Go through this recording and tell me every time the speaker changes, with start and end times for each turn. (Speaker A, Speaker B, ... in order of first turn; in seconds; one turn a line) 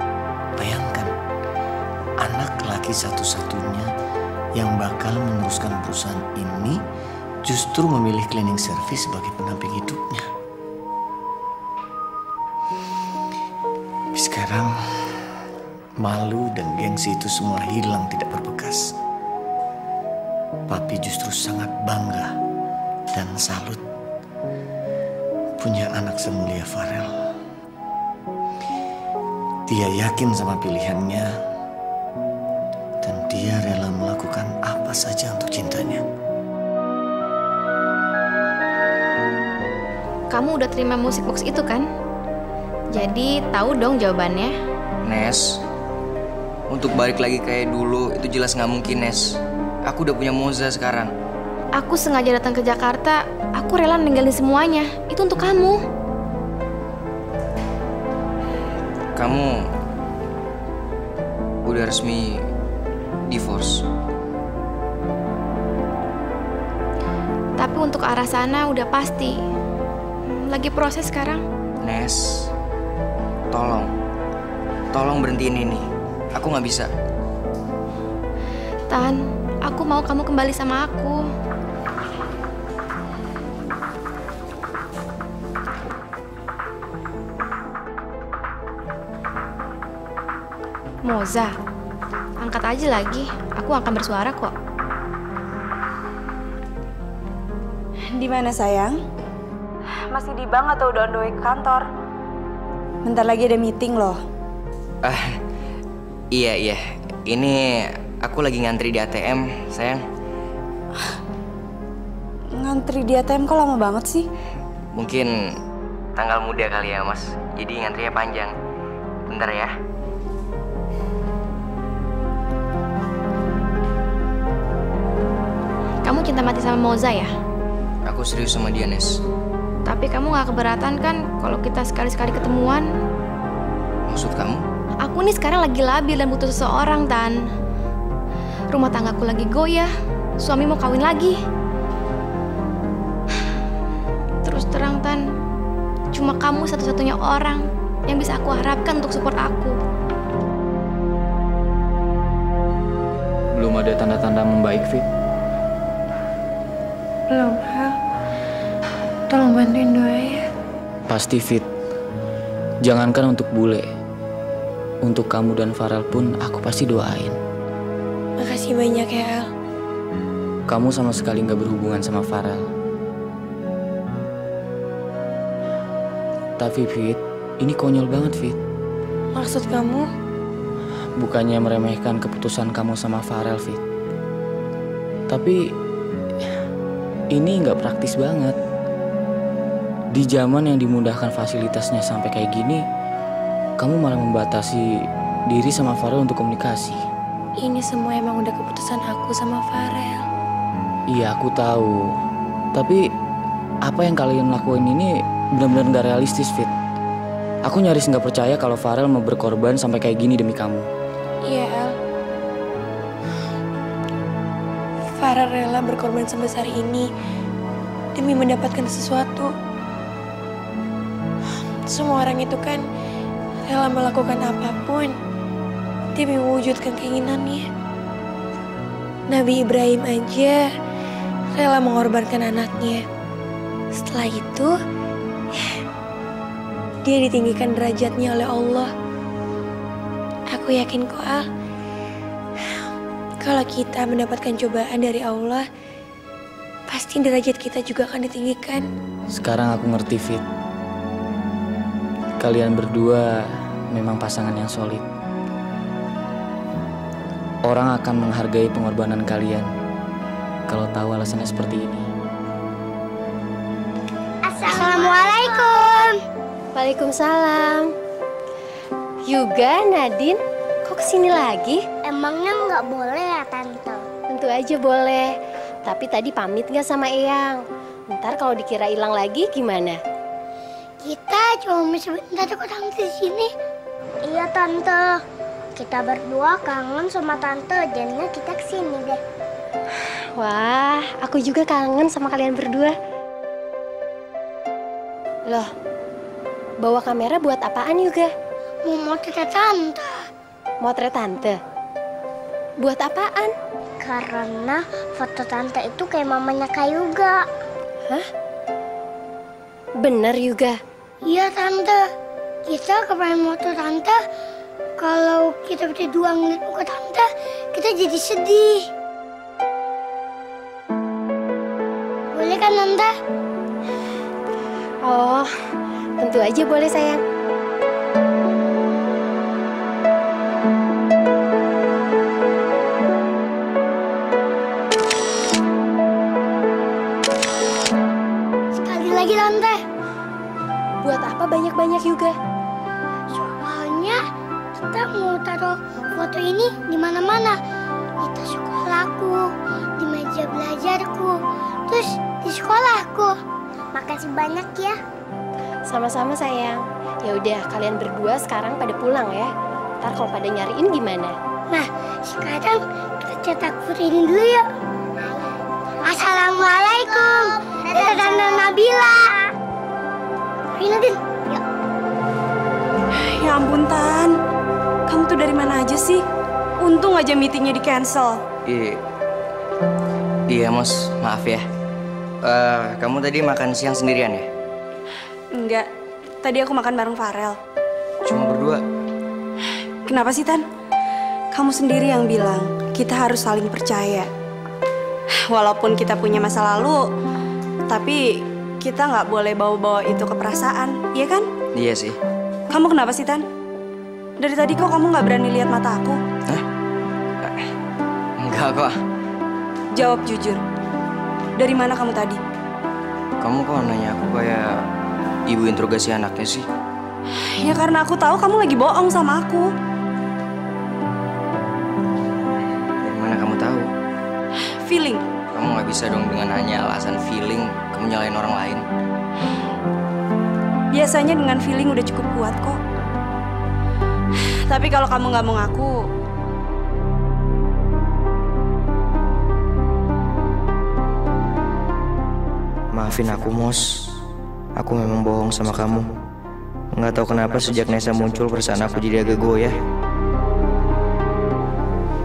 Speaker A: 0.6-1.1
Speaker A: 2.2-3.9
Speaker A: 4.5-6.8
Speaker A: 7.4-10.3
Speaker A: 14.1-15.2
Speaker A: 16.0-18.9
Speaker A: 20.7-22.4
Speaker A: 23.1-23.8
Speaker A: 25.6-27.2
Speaker A: 29.7-31.3
Speaker A: 33.0-36.0
Speaker B: 40.3-41.9
Speaker B: 42.9-44.5
Speaker C: 45.1-45.6
Speaker C: 46.7-51.1
Speaker B: 51.8-55.8
Speaker C: 59.2-59.7
Speaker C: 61.7-62.4
Speaker C: 63.3-63.9
Speaker B: 67.6-69.4
Speaker B: 70.3-71.4
Speaker C: 71.8-72.5
Speaker C: 73.5-73.9
Speaker C: 74.9-76.9
Speaker B: 78.9-81.3
Speaker B: 91.0-91.5
Speaker B: 92.4-94.5
Speaker D: 98.1-99.0
Speaker D: 100.1-101.8
Speaker D: 103.0-104.2
Speaker C: 105.0-105.4
Speaker C: 106.3-110.0
Speaker D: 112.5-114.3
Speaker C: 115.0-115.3
Speaker C: 116.2-118.5
Speaker C: 119.3-119.7
Speaker B: 126.0-127.3
Speaker C: 128.1-129.2
Speaker B: 129.9-132.9
Speaker C: 134.1-134.6
Speaker B: 135.0-137.4
Speaker B: 138.7-141.4
Speaker B: 144.4-145.2
Speaker B: 146.1-149.8
Speaker E: 153.5-155.1
Speaker F: 157.3-157.9
Speaker F: 159.3-160.4
Speaker E: 161.1-161.7
Speaker E: 162.8-163.9
Speaker E: 165.0-167.4
Speaker F: 168.4-169.5
Speaker E: 170.7-172.7
Speaker E: 176.6-178.6
Speaker F: 179.3-180.1
Speaker E: 181.2-183.8
Speaker E: 185.3-185.7
Speaker E: 187.3-188.6
Speaker E: 190.1-192.8
Speaker E: 193.8-194.9
Speaker E: 195.5-197.0
Speaker F: 197.6-200.2
Speaker E: 201.1-202.1
Speaker E: 202.7-203.1
Speaker E: 203.8-206.7
Speaker E: 207.7-210.9
Speaker F: 211.5-211.9
Speaker F: 215.2-217.1
Speaker F: 218.2-219.5
Speaker F: 221.9-222.8
Speaker F: 223.7-225.1
Speaker F: 226.2-227.7
Speaker F: 229.3-230.7
Speaker F: 231.6-233.0
Speaker F: 234.0-234.8
Speaker F: 237.1-238.9
Speaker F: 240.5-241.5
Speaker F: 243.4-245.7
Speaker F: 246.9-248.9
Speaker E: 249.3-250.4
Speaker E: 252.4-255.0
Speaker E: 257.6-259.7
Speaker E: 260.7-262.1
Speaker G: 264.5-266.2
Speaker H: 266.8-267.9
Speaker H: 269.3-271.8
Speaker G: 272.1-274.0
Speaker H: 274.3-280.0
Speaker G: 281.1-283.5
Speaker G: 284.3-285.0
Speaker G: 285.8-289.2
Speaker H: 290.4-292.9
Speaker H: 296.8-298.3
Speaker G: 298.9-300.2
Speaker H: 300.8-301.6
Speaker H: 302.8-303.5
Speaker G: 304.0-307.4
Speaker H: 310.0-310.8
Speaker G: 311.3-312.0
Speaker G: 312.7-314.2
Speaker G: 315.0-318.9
Speaker G: 322.3-323.1
Speaker H: 325.0-325.5
Speaker H: 326.2-327.2
Speaker G: 338.8-339.8
Speaker H: 341.0-342.4
Speaker G: 343.3-344.2
Speaker G: 344.8-347.6
Speaker G: 348.2-351.3
Speaker G: 351.9-353.3
Speaker G: 354.0-354.9
Speaker H: 355.9-361.3
Speaker G: 361.7-364.6
Speaker G: 366.1-369.2
Speaker G: 370.8-371.6
Speaker D: 373.2-374.4
Speaker D: 375.1-376.2
Speaker D: 376.8-378.4
Speaker C: 378.7-379.0
Speaker C: 380.5-381.6
Speaker C: 382.4-384.5
Speaker D: 385.5-385.9
Speaker D: 386.4-387.6
Speaker C: 388.3-388.8
Speaker D: 390.1-390.6
Speaker D: 391.5-394.3
Speaker D: 395.4-397.0
Speaker D: 397.9-398.2
Speaker D: 398.8-401.5
Speaker C: 401.8-402.2
Speaker D: 402.7-403.4
Speaker D: 404.4-406.2
Speaker C: 407.4-407.7
Speaker C: 408.4-409.0
Speaker D: 409.9-410.6
Speaker D: 411.6-412.4
Speaker C: 413.4-414.8
Speaker C: 415.5-416.7
Speaker D: 417.5-419.7
Speaker C: 423.0-423.9
Speaker D: 424.8-425.2
Speaker C: 425.5-428.8
Speaker D: 430.9-432.8
Speaker D: 434.7-435.9
Speaker C: 442.9-444.0
Speaker C: 444.8-446.1
Speaker C: 447.0-449.8